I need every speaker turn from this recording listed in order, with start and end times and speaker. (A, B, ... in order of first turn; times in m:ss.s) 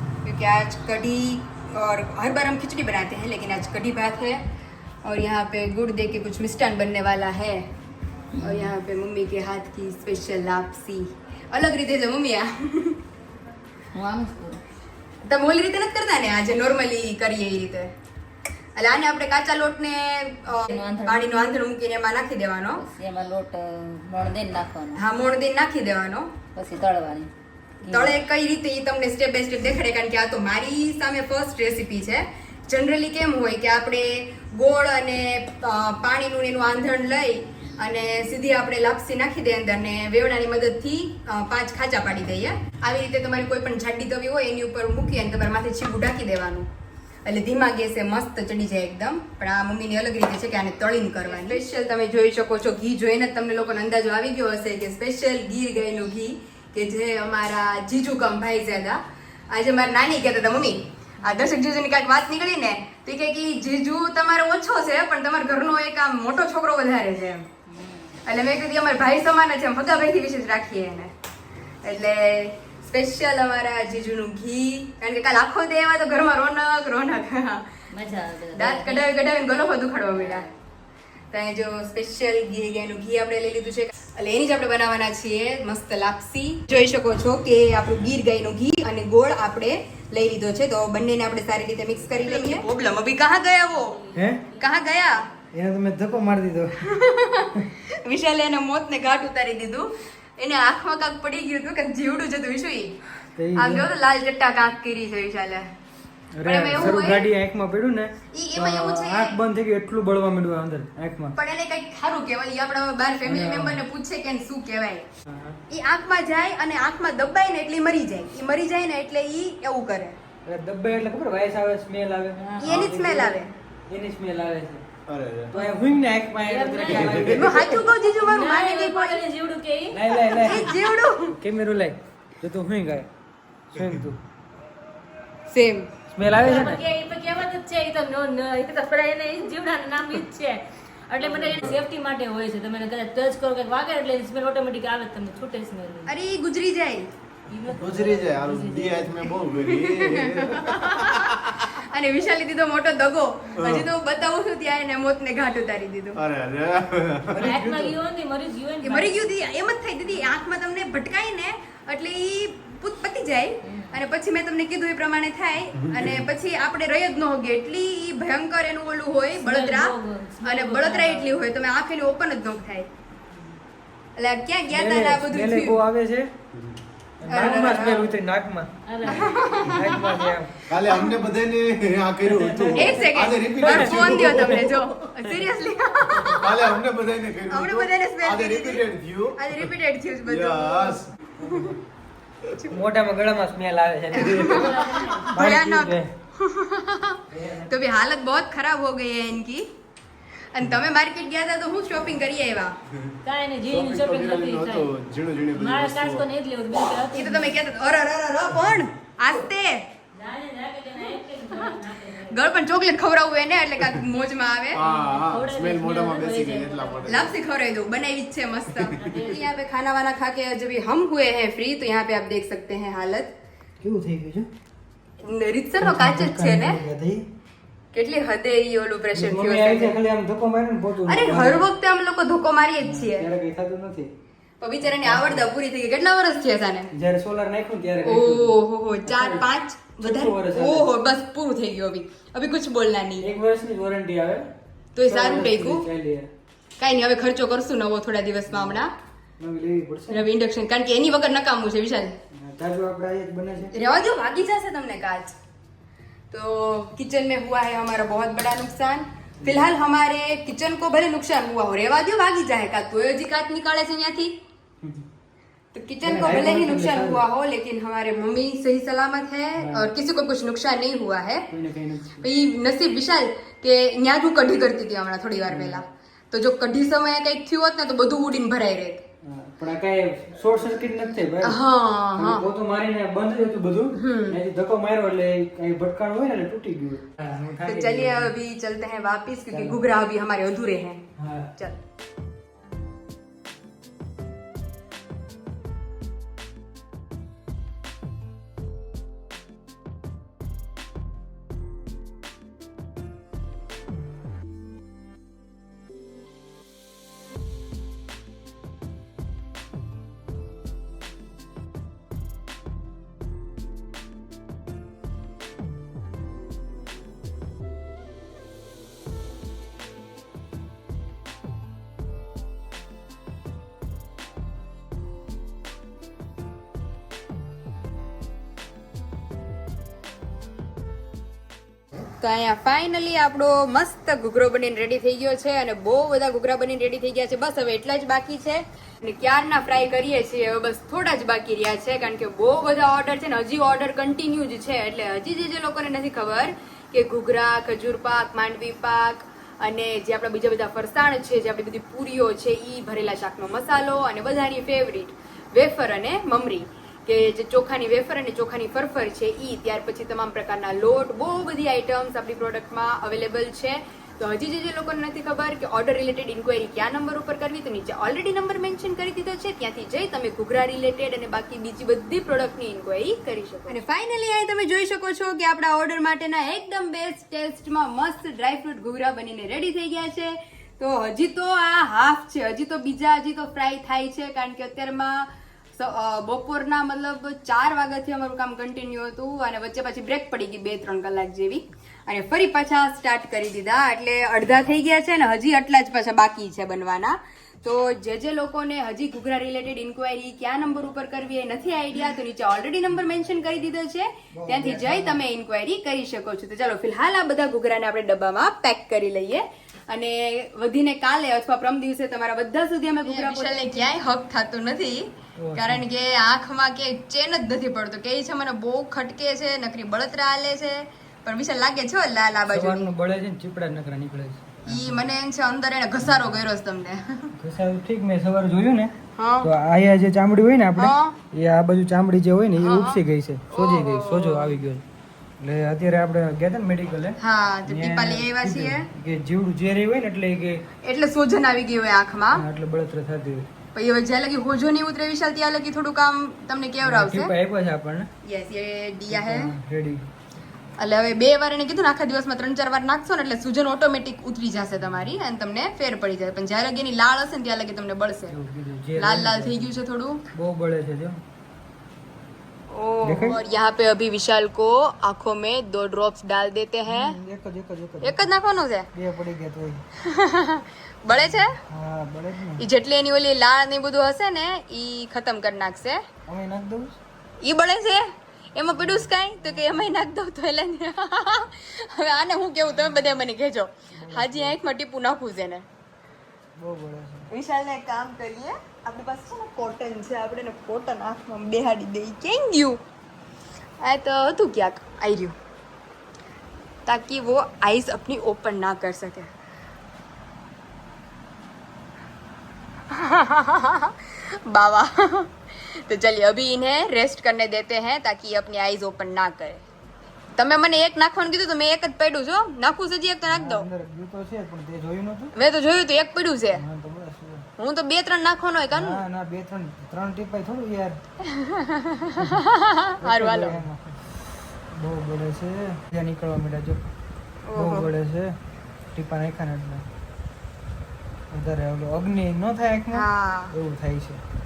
0:00.2-0:04.4 A
0:05.0-0:07.7 A
0:08.3-0:13.0 A
0:08.4-0:08.7 B
0:13.9-0:14.6 B
0:15.2-0:17.9 A
0:18.8-0:22.8 A
0:20.6-0:21.6 B
0:22.8-0:25.0 B
0:24.9-0:26.4 A
0:26.5-0:27.3 B
0:27.8-0:28.2 B
0:27.9-0:46.7 A
0:47.2-1:07.5 A
1:07.7-1:08.2 B
1:08.2-1:11.1 A
1:11.8-1:17.7 A
1:17.9-1:19.4 B
1:18.5-1:20.4 A
1:20.1-1:20.5 B
1:21.3-1:34.0 A
1:34.1-1:34.5 C
1:34.1-1:34.4 D
1:34.6-1:35.2 A
1:35.5-1:36.8 D
1:36.8-1:43.0 A
1:43.4-1:43.8 D
1:43.6-1:45.7 A
1:46.4-1:51.3 D
1:46.4-1:47.3 A
1:48.3-1:49.4 A
1:51.4-1:55.0 A
1:53.2-1:53.8 D
1:55.3-1:55.6 D
1:55.7-2:00.2 A
2:00.4-2:04.8 D
2:02.4-2:02.7 C
2:02.6-2:03.5 A
2:05.1-2:05.5 E
2:05.5-2:07.8 D
2:05.5-2:05.9 C
2:06.4-2:10.6 C
2:06.9-2:07.5 E
2:07.3-2:09.2 A
2:09.9-2:13.1 D
2:10.4-2:11.3 A
2:13.7-2:14.0 E
2:13.7-2:14.2 D
2:15.5-2:15.9 A
2:16.1-2:16.8 D
2:16.4-2:26.1 C
2:26.1-2:27.1 A
2:27.5-2:29.3 C
2:27.7-2:31.6 E
2:29.6-2:36.2 A
2:33.6-2:33.9 E
2:36.2-2:37.5 E
2:37.3-2:38.0 D
2:37.4-2:39.3 C
2:38.8-2:52.9 A
2:45.8-2:46.2 E
2:49.4-2:51.5 C
2:54.2-2:55.8 A
2:54.7-2:56.3 D
2:57.2-3:00.6 D
2:57.3-2:58.1 A
2:58.9-2:59.4 C
2:59.1-3:00.0 A
3:00.7-3:04.8 E
3:02.2-3:03.0 D
3:02.7-3:06.7 A
3:03.6-3:04.3 D
3:06.2-3:09.7 E
3:07.5-3:08.8 A
3:09.4-3:11.7 A
3:10.2-3:11.1 E
3:11.4-3:11.7 D
3:12.7-3:16.1 D
3:14.1-3:19.7 A
3:14.5-3:15.3 C
3:17.3-3:17.7 D
3:20.5-3:22.8 A
3:23.2-3:24.9 C
3:23.7-3:26.2 E
3:25.5-3:27.7 C
3:27.1-3:29.8 A
3:30.1-3:32.5 C
3:32.3-3:34.8 A
3:34.7-3:37.3 E
3:34.8-3:37.3 C
3:37.1-3:43.3 A
3:38.7-3:39.2 E
3:38.9-3:39.5 C
3:43.8-3:44.5 D
3:45.2-3:46.8 A
3:45.8-3:47.2 D
3:47.9-3:50.0 A
3:49.1-3:51.7 D
3:51.0-3:53.3 A
3:52.8-3:54.1 D
3:54.6-3:56.9 A
3:54.8-3:55.5 D
3:56.9-3:58.5 D
3:58.0-4:03.3 A
3:59.0-3:59.4 D
4:00.0-4:00.9 D
4:03.2-4:04.5 D
4:04.9-4:05.8 A
4:05.0-4:06.3 D
4:06.8-4:08.9 A
4:08.5-4:08.8 D
4:09.4-4:10.2 D
4:10.1-4:12.2 A
4:12.3-4:13.7 D
4:13.7-4:15.4 A
4:16.3-4:24.4 A
4:25.7-4:31.5 A
4:26.0-4:27.2 D
4:29.6-4:29.9 D
4:31.5-4:32.2 D
4:32.2-4:39.0 A
4:35.5-4:35.8 D
4:39.2-4:41.6 D
4:41.4-4:42.5 A
4:42.1-4:48.3 D
4:43.9-4:44.4 A
4:47.6-4:51.8 A
4:49.5-4:49.8 D
4:51.2-4:51.5 D
5:32.1-7:02.9 A
6:44.3-6:45.2 D
6:53.1-6:53.5 B
6:55.4-6:55.8 D
7:02.5-7:05.0 D
7:04.6-7:07.3 A
7:07.4-7:14.8 D
7:09.2-7:09.5 A
7:10.8-7:11.2 A
7:12.6-7:14.6 A
7:15.4-7:20.6 D
7:17.2-7:18.9 A
7:20.8-7:22.4 A
7:22.3-7:23.5 D
7:23.7-7:27.3 A
7:26.8-7:28.1 D
7:28.2-7:29.5 A
7:29.1-7:30.0 D
7:30.8-7:38.4 A
7:34.8-7:35.1 D
7:38.3-7:39.8 D
7:39.0-7:40.3 A
7:40.3-7:41.2 D
7:42.7-7:47.2 A
7:43.0-7:43.4 D
7:46.8-7:48.3 D
7:48.0-7:48.9 A
7:48.9-7:49.8 D
7:50.0-7:51.6 A
7:51.1-7:52.6 D
7:52.6-7:56.0 A
7:56.3-7:57.0 D
7:57.4-8:05.6 A
7:58.8-7:59.8 D
8:04.0-8:04.6 D
8:06.6-8:07.3 D
8:07.3-8:12.8 A
8:13.8-8:15.4 A
8:16.8-8:19.3 A
8:22.9-8:29.6 A
8:30.4-8:33.7 A
8:33.3-8:35.3 D
8:35.3-8:36.6 A
8:36.5-8:37.4 D
8:37.6-8:39.0 A
8:38.7-8:41.0 D
8:41.2-8:43.6 A
8:42.2-8:42.4 D
8:43.0-8:44.1 D
8:44.7-8:46.8 D
8:47.4-8:47.9 A
8:47.5-8:48.4 D
8:48.9-8:49.9 D
8:51.3-8:54.2 D
8:52.9-8:53.5 A